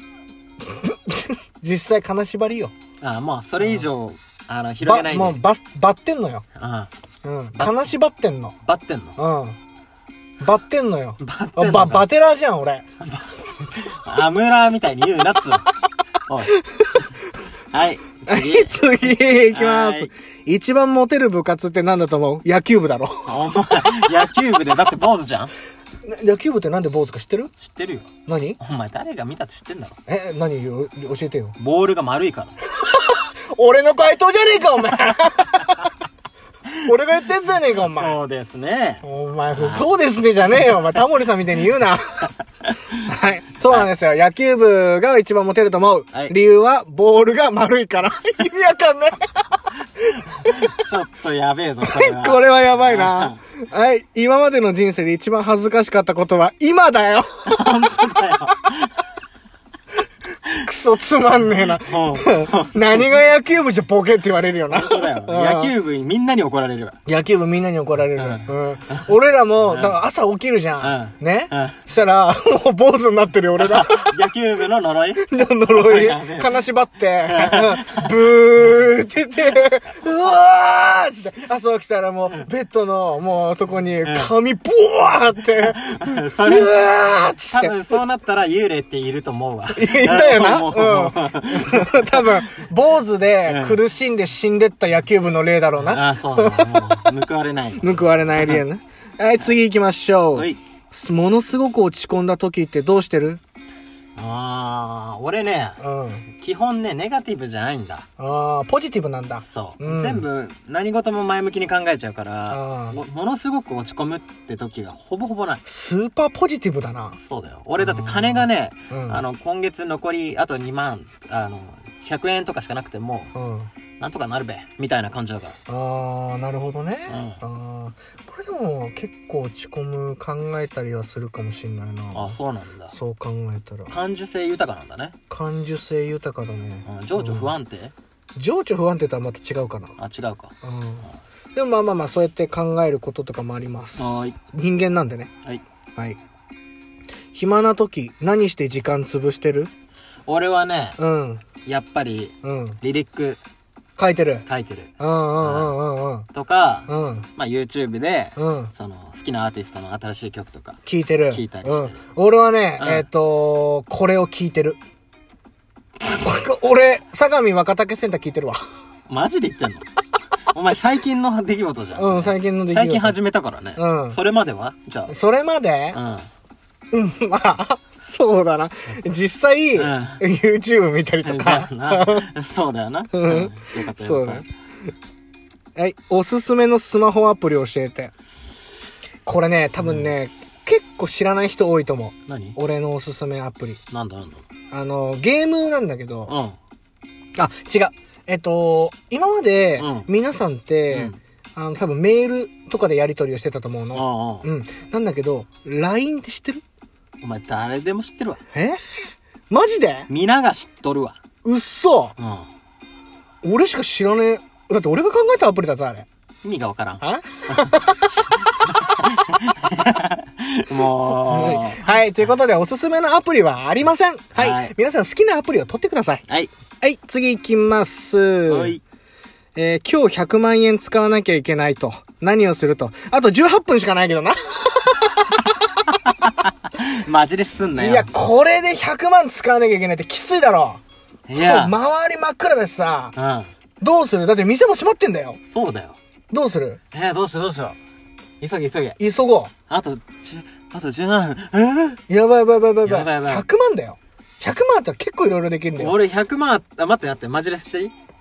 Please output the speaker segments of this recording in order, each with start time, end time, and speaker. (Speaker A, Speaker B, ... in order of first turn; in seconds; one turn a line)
Speaker A: 0.6-2.7
Speaker B: 3.0-5.4
Speaker A: 3.6-3.9
Speaker A: 4.8-6.5
Speaker B: 6.5-6.9
Speaker A: 7.2-8.6
Speaker B: 8.6-9.2
Speaker A: 9.2-9.6
Speaker A: 10.4-12.8
Speaker B: 11.2-12.1
Speaker B: 13.0-15.7
Speaker B: 16.3-16.5
Speaker A: 16.6-17.0
Speaker B: 17.7-20.1
Speaker A: 18.3-23.4
Speaker B: 23.3-25.5
Speaker A: 26.0-27.5
Speaker B: 27.6-28.1
Speaker A: 28.3-28.6
Speaker B: 28.6-30.0
Speaker A: 30.1-31.6
Speaker B: 31.6-32.6
Speaker A: 32.8-35.9
Speaker A: 36.8-38.2
Speaker B: 37.6-39.0
Speaker A: 39.0-42.3
Speaker B: 39.5-39.9
Speaker A: 43.0-49.4
Speaker A: 50.3-50.6
Speaker B: 50.4-53.4
Speaker A: 51.8-57.5
Speaker B: 57.5-58.9
Speaker A: 60.6-65.7
Speaker B: 61.9-63.1
Speaker B: 64.7-67.0
Speaker A: 67.1-74.2
Speaker B: 68.2-69.0
Speaker B: 69.6-70.0
Speaker B: 70.8-71.8
Speaker B: 73.6-76.6
Speaker A: 75.2-87.8
Speaker B: 77.3-78.1
Speaker B: 84.0-84.3
Speaker B: 85.6-92.4
Speaker A: 89.8-97.0
Speaker B: 93.5-93.8
Speaker B: 95.8-98.6
Speaker A: 97.8-103.4
Speaker B: 104.2-105.8
Speaker A: 105.8-106.3
Speaker B: 106.4-108.1
Speaker A: 108.2-110.2
Speaker B: 109.4-115.6
Speaker A: 112.5-113.0
Speaker A: 115.7-117.2
Speaker B: 117.2-123.3
Speaker A: 117.8-119.2
Speaker A: 123.3-123.7
Speaker B: 124.0-125.6
Speaker A: 125.7-132.4
Speaker B: 127.1-127.4
Speaker B: 132.1-133.0
Speaker A: 132.9-133.9
Speaker B: 133.9-135.2
Speaker A: 135.3-137.5
Speaker B: 136.8-137.9
Speaker A: 138.4-139.9
Speaker B: 140.0-140.5
Speaker A: 140.6-145.3
Speaker B: 144.0-144.4
Speaker A: 147.3-149.7
Speaker B: 150.3-151.0
Speaker A: 151.0-151.4
Speaker B: 151.6-153.4
Speaker A: 152.4-152.8
Speaker A: 154.0-154.4
Speaker B: 154.5-155.8
Speaker A: 155.0-156.3
Speaker B: 156.3-160.8
Speaker A: 156.9-157.3
Speaker A: 158.4-158.7
Speaker A: 160.8-164.8
Speaker B: 161.3-162.0
Speaker B: 162.8-163.1
Speaker A: 166.1-168.6
Speaker B: 169.1-169.8
Speaker B: 170.5-175.2
Speaker A: 172.0-173.2
Speaker A: 173.8-174.2
Speaker A: 175.1-176.0
Speaker B: 175.9-176.3
Speaker A: 176.9-182.3
Speaker B: 179.8-180.2
Speaker B: 181.2-184.4
Speaker A: 183.1-184.4
Speaker A: 185.8-188.1
Speaker A: 189.2-193.8
Speaker B: 189.8-190.1
Speaker B: 192.3-192.6
Speaker B: 193.9-194.4
Speaker A: 194.7-196.3
Speaker B: 196.3-196.6
Speaker A: 197.4-206.6
Speaker B: 199.8-200.1
Speaker B: 200.9-201.2
Speaker B: 203.9-204.5
Speaker B: 207.2-208.4
Speaker A: 208.5-210.1
Speaker B: 210.1-211.2
Speaker A: 211.4-212.2
Speaker B: 212.2-212.5
Speaker A: 213.4-216.1
Speaker B: 216.4-221.8
Speaker A: 217.0-218.0
Speaker A: 221.3-226.2
Speaker B: 224.4-224.7
Speaker A: 226.8-228.8
Speaker B: 228.5-228.8
Speaker A: 229.6-235.3
Speaker B: 236.7-238.1
Speaker A: 237.8-240.8
Speaker B: 241.3-241.7
Speaker A: 241.4-243.2
Speaker B: 243.2-243.5
Speaker A: 243.8-245.4
Speaker B: 245.5-246.0
Speaker A: 246.3-246.8
Speaker B: 246.9-247.8
Speaker B: 248.4-249.0
Speaker A: 249.0-249.5
Speaker B: 249.7-252.0
Speaker A: 252.1-256.0
Speaker B: 252.8-253.5
Speaker B: 255.8-257.9